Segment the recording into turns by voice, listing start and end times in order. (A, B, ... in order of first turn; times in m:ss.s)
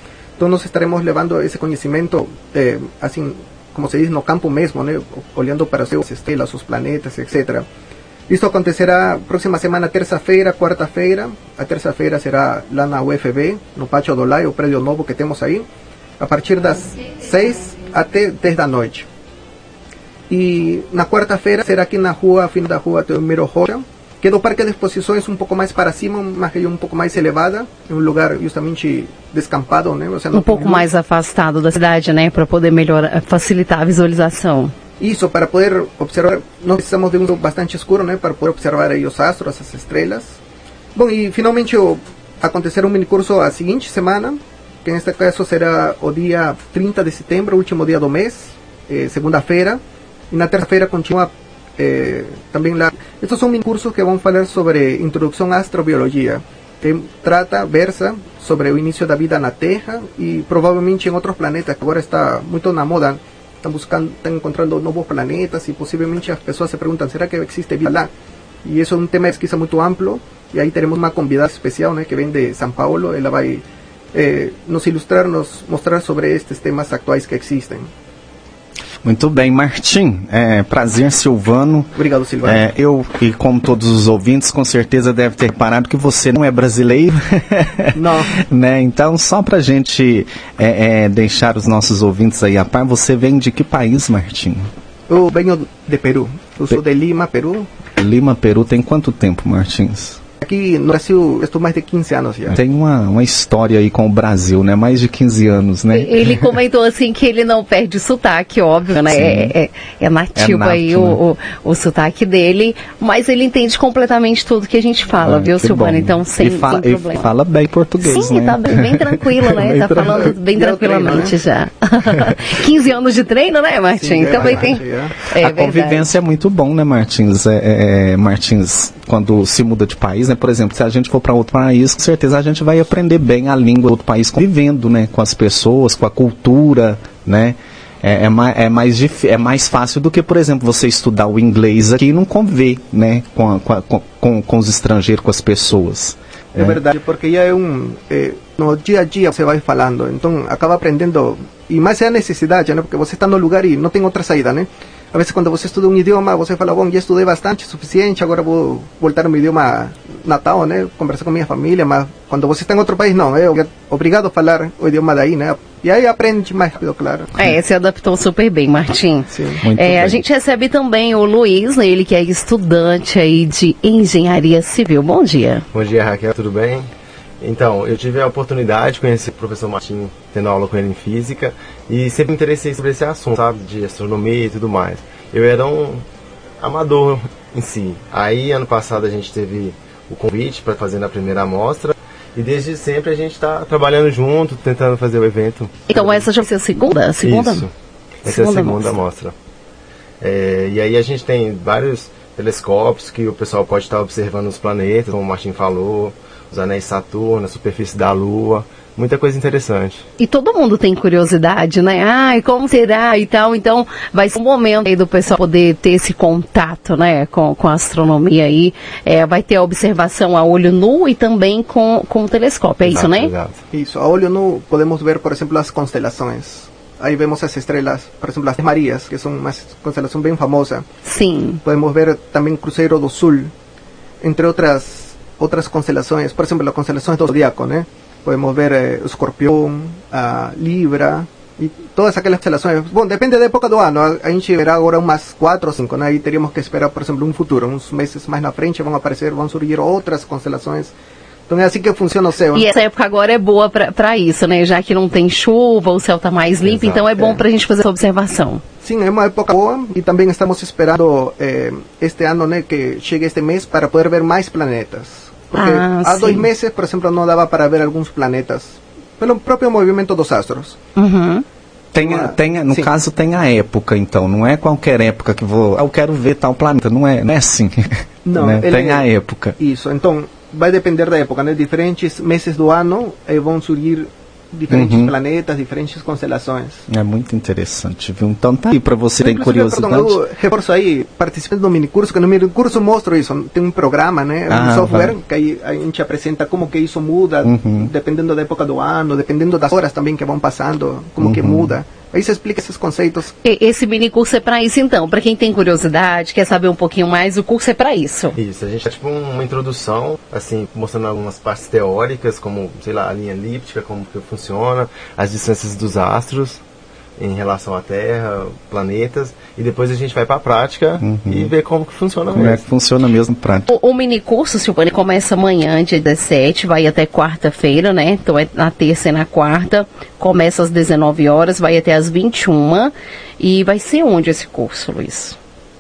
0:00.4-0:07.7 A
0:08.3-0:15.6 A
0:16.2-0:19.1 A
0:20.3-0:30.9 A
0:30.3-0:34.7 B
0:35.0-0:40.4 A
0:41.0-0:49.8 A
0:50.3-1:08.1 A
1:08.6-1:17.9 A
1:19.0-1:34.7 C
1:22.0-1:22.6 A
1:28.0-1:28.3 A
1:35.1-1:37.7 A
1:38.0-1:40.2 C
1:40.4-1:42.6 A
1:42.5-1:46.4 C
1:45.9-1:57.3 B
1:49.1-1:49.5 C
1:50.4-1:51.2 C
1:55.2-2:00.3 C
1:58.0-2:06.1 B
2:00.5-2:01.4 A
2:04.0-2:05.2 A
2:05.4-2:26.8 C
2:26.6-2:47.4 A
2:47.4-2:55.6 B
2:49.3-2:49.6 A
2:49.6-2:50.2 C
2:55.7-2:56.9 D
2:57.4-3:06.0 D
3:06.6-3:16.3 D
3:15.9-3:17.7 B
3:17.2-3:17.7 D
3:18.2-3:19.3 D
3:18.3-3:19.0 B
3:20.2-3:30.0 D
3:30.2-3:43.3 B
3:42.8-3:43.6 D
3:43.7-3:50.9 A
3:51.0-3:51.6 B
3:51.6-3:53.5 A
3:54.2-4:10.9 A
4:11.5-4:12.7 A
4:12.5-4:18.6 B
4:16.6-4:17.4 A
4:18.8-4:30.8 A
4:25.5-4:26.5 B
4:31.0-4:31.4 B
4:31.9-4:39.6 C
4:32.0-4:32.9 A
4:38.2-4:46.8 A
4:44.7-4:45.1 C
4:46.9-4:50.2 C
4:49.2-5:03.3 A
4:54.5-4:55.1 C
4:57.4-4:57.9 C
5:01.2-5:01.8 C
5:03.4-5:08.4 B
5:08.4-5:16.6 D
5:17.2-5:22.6 D
5:21.0-5:21.5 C
5:22.3-5:23.7 C
5:23.7-5:35.4 B